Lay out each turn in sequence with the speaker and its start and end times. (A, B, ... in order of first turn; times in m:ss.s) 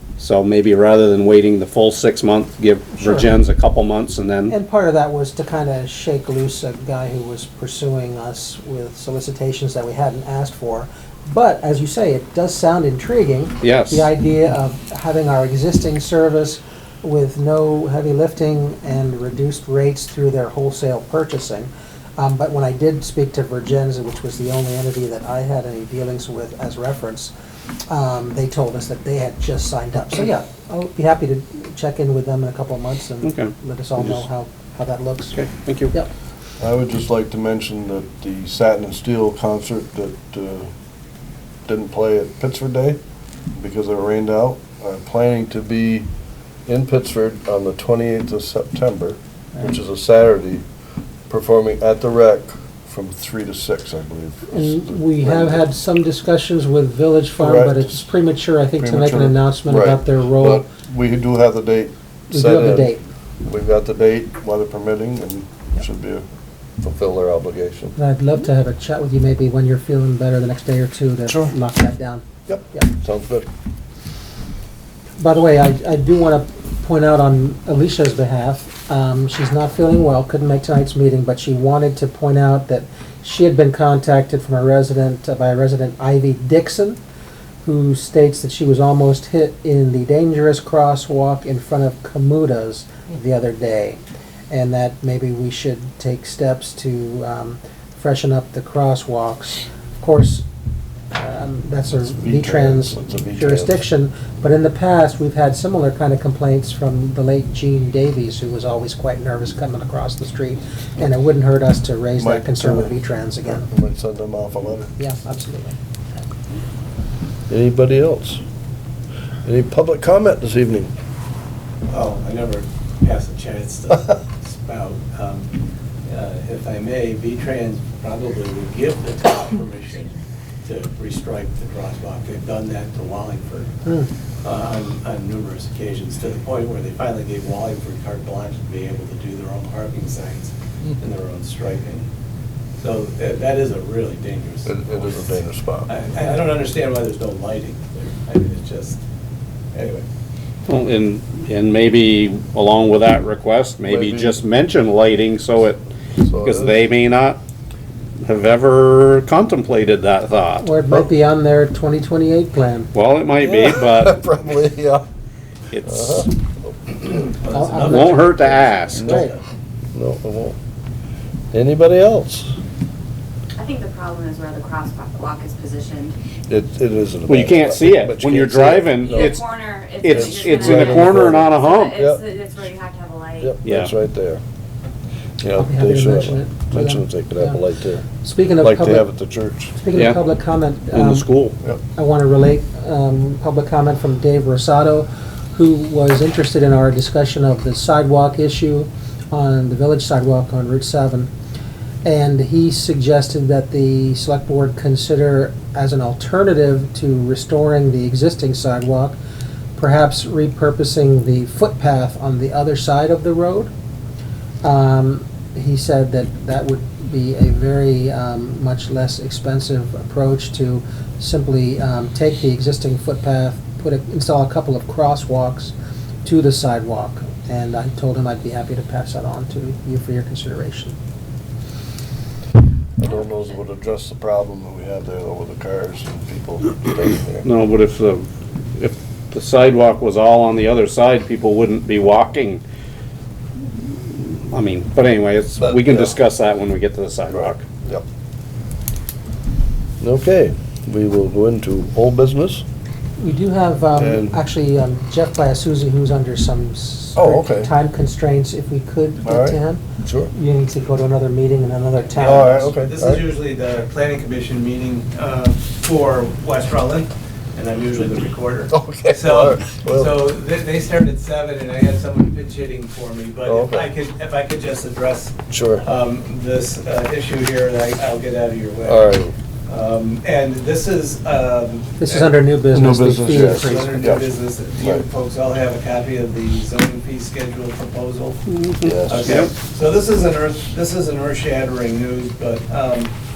0:00.2-0:04.5 A
0:03.0-0:03.3 B
0:04.5-0:27.3 B
0:13.6-0:14.1 A
0:27.9-0:36.1 B
0:33.2-0:34.2 A
0:35.3-0:35.9 A
0:36.6-0:40.7 C
0:41.7-0:43.0 C
0:43.6-0:46.1 C
0:46.6-0:50.6 C
0:51.3-0:55.6 C
0:54.5-1:00.7 B
0:57.4-0:58.1 C
0:58.8-1:02.9 C
1:02.3-1:03.0 B
1:03.4-1:06.2 C
1:06.8-1:08.0 C
1:08.0-1:12.9 B
1:11.3-1:11.5 C
1:12.5-1:13.5 C
1:15.2-1:27.0 B
1:27.6-1:40.4 B
1:41.1-1:53.6 B
1:42.0-1:43.8 C
1:52.2-1:55.0 C
1:55.0-1:55.8 B
1:57.5-1:58.4 C
1:59.4-2:00.9 C
2:01.9-2:05.5 D
2:06.0-2:13.8 D
2:13.8-2:14.1 B
2:14.4-2:22.1 D
2:22.8-2:25.3 D
2:24.6-2:25.9 C
2:25.9-2:29.0 D
2:29.7-2:30.0 D
2:30.7-2:35.8 A
2:33.8-2:34.4 C
2:36.2-2:36.8 C
2:36.4-2:37.4 A
2:38.2-2:40.7 A
2:40.6-2:42.9 B
2:42.9-2:44.2 A
2:43.4-2:45.0 C
2:45.7-2:46.3 A
2:45.8-2:47.3 C
2:47.3-2:49.3 D
2:47.5-2:49.3 B
2:47.8-2:49.3 A
2:49.0-2:49.3 C
2:49.9-2:50.6 C
2:51.5-2:52.6 C
2:53.6-2:56.2 E
2:56.5-2:59.5 C
2:57.3-2:59.4 A
2:59.0-3:03.6 E
3:00.0-3:01.9 A
3:00.0-3:02.2 C
3:03.4-3:04.4 C
3:03.6-3:03.9 A
3:05.4-3:08.0 C
3:05.6-3:07.6 B
3:08.2-3:09.0 B
3:08.6-3:09.7 C
3:09.8-3:11.2 B
3:09.9-3:10.2 A
3:10.9-3:11.6 A
3:12.0-3:21.3 B
3:22.0-3:29.2 B
3:29.8-3:33.7 B
3:34.6-3:51.0 B
3:53.0-3:57.5 C
3:57.4-4:02.6 A
4:04.1-4:07.6 A
4:05.6-4:06.1 C
4:07.3-4:08.0 C
4:10.0-4:12.6 C
4:13.2-4:22.7 B
4:13.9-4:14.4 C
4:17.2-4:17.7 C
4:19.2-4:20.3 C
4:22.1-4:42.3 D
4:22.2-4:23.2 C
4:28.7-4:30.2 C
4:33.4-4:33.9 C
4:35.5-4:35.9 C
4:38.8-4:39.3 C
4:42.0-4:44.0 B
4:42.7-4:45.0 C
4:43.1-4:48.4 D
4:48.5-4:49.5 A
4:48.8-4:49.4 C
4:49.0-4:53.1 D